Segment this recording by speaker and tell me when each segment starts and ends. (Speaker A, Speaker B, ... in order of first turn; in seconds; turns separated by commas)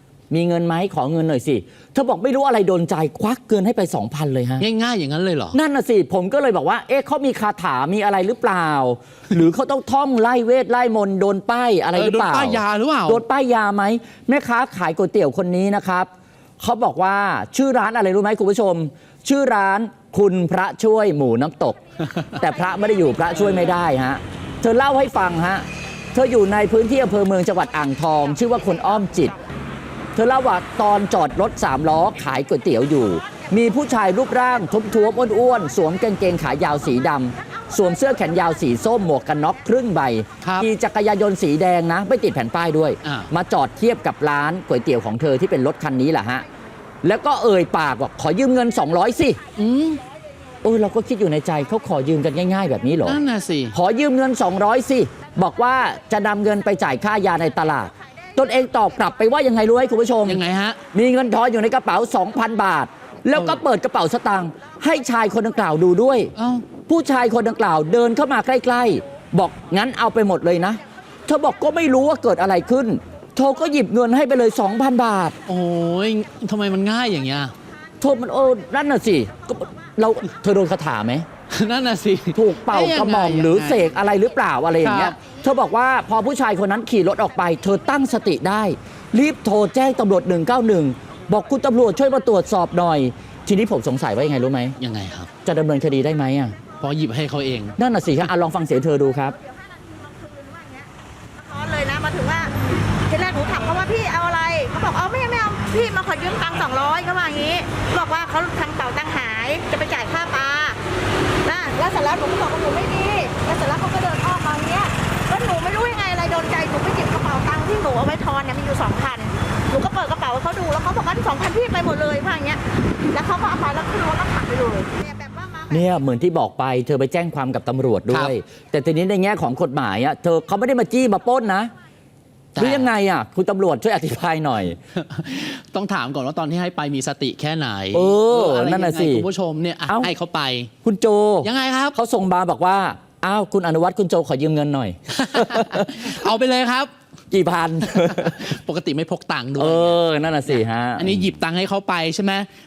Speaker A: 0.3-4.6, Speaker B: 4.6-5.6, Speaker A: 5.5-16.1, Speaker B: 11.9-13.2, Speaker A: 16.6-21.8, Speaker A: 22.4-29.4, Speaker A: 30.1-46.4, Speaker B: 40.4-40.7, Speaker B: 43.0-43.3, Speaker A: 47.0-49.4, Speaker B: 49.6-50.0, Speaker A: 50.6-53.2, Speaker B: 53.0-53.7, Speaker A: 53.7-60.4, Speaker B: 60.2-60.8, Speaker A: 60.9-66.3, Speaker B: 63.4-63.6, Speaker B: 66.3-66.7, Speaker A: 66.8-75.4, Speaker B: 75.5-77.5, Speaker A: 78.0-81.2, Speaker B: 81.5-83.9, Speaker A: 82.3-94.8, Speaker B: 84.8-85.2, Speaker B: 94.8-95.3, Speaker A: 95.4-96.5, Speaker B: 96.8-97.7, Speaker A: 97.8-99.3, Speaker C: 99.7-110.8, Speaker C: 111.4-122.6, Speaker C: 123.1-125.9, Speaker A: 125.7-131.7, Speaker B: 128.1-128.3, Speaker B: 132.6-132.9, Speaker A: 132.6-134.8, Speaker B: 134.9-140.7, Speaker A: 137.9-139.2, Speaker A: 140.8-146.1, Speaker B: 141.4-142.0, Speaker B: 145.1-146.9, Speaker A: 147.3-148.5, Speaker B: 148.0-152.5, Speaker A: 149.6-151.3